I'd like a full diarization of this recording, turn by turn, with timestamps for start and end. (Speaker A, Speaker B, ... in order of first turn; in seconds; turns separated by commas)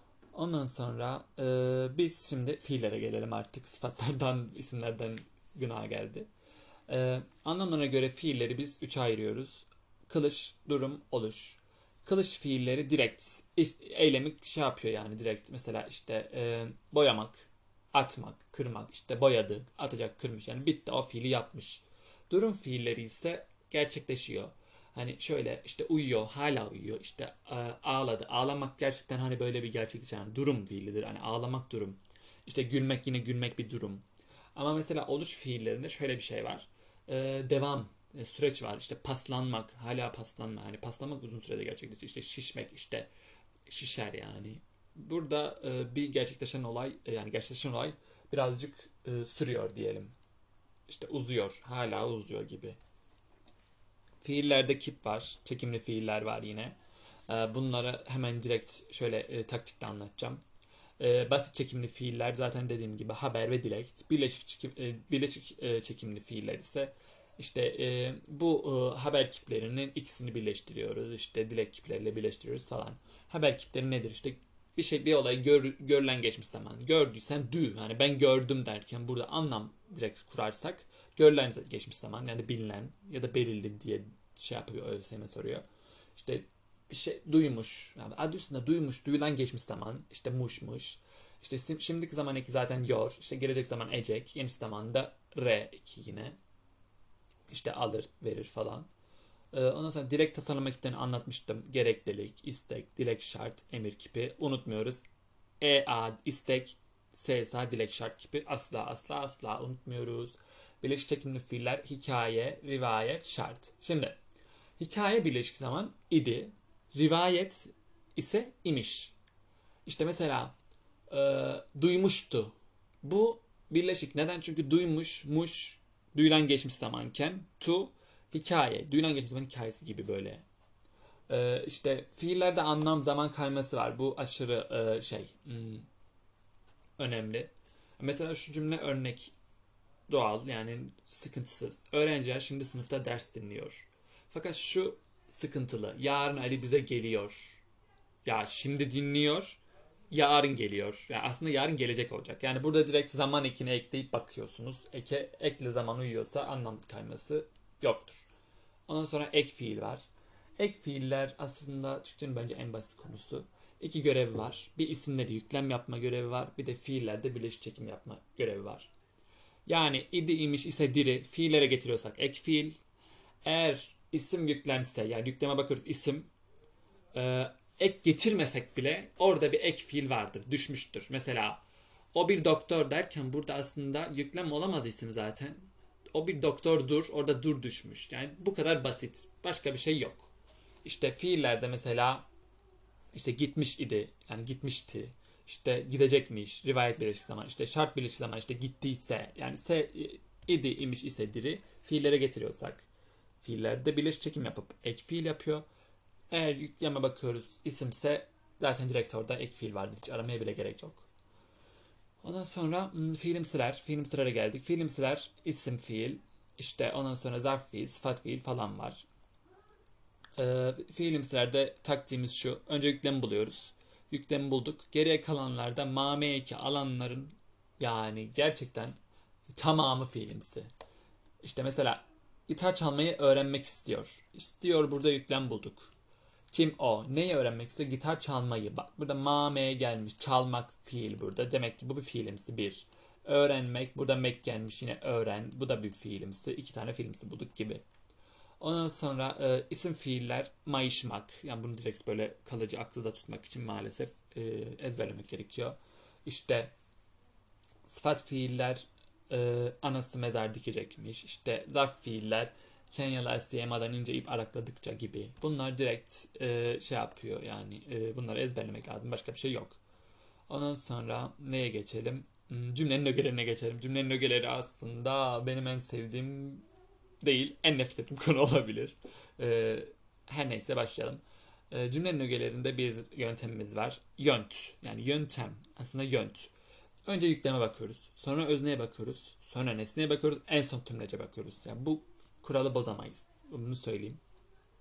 Speaker A: 0.3-6.3, Speaker A: 6.9-34.0, Speaker A: 34.6-43.1, Speaker A: 43.7-50.1, Speaker A: 50.9-52.8, Speaker A: 54.2-56.8, Speaker A: 57.3-60.4, Speaker A: 61.0-85.6, Speaker A: 86.2-96.4, Speaker A: 97.5-98.9, Speaker A: 99.5-105.0, Speaker A: 105.6-114.2, Speaker A: 114.8-119.2, Speaker A: 119.9-120.5, Speaker A: 121.1-130.4, Speaker A: 131.3-135.9, Speaker A: 137.0-139.3, Speaker A: 140.1-147.6, Speaker A: 148.2-158.3, Speaker A: 158.9-160.1, Speaker A: 160.6-168.9, Speaker A: 169.7-172.8, Speaker A: 173.4-176.3, Speaker A: 177.1-181.6, Speaker A: 182.1-190.3, Speaker A: 190.8-192.3, Speaker A: 193.1-202.9, Speaker A: 203.4-205.7, Speaker A: 206.3-211.1, Speaker A: 212.2-219.1, Speaker A: 220.4-229.0, Speaker A: 229.5-230.7, Speaker A: 231.4-235.9, Speaker A: 236.5-247.8, Speaker A: 248.6-256.7, Speaker A: 257.9-269.8, Speaker A: 270.5-276.7, Speaker A: 277.2-286.5, Speaker A: 287.1-294.2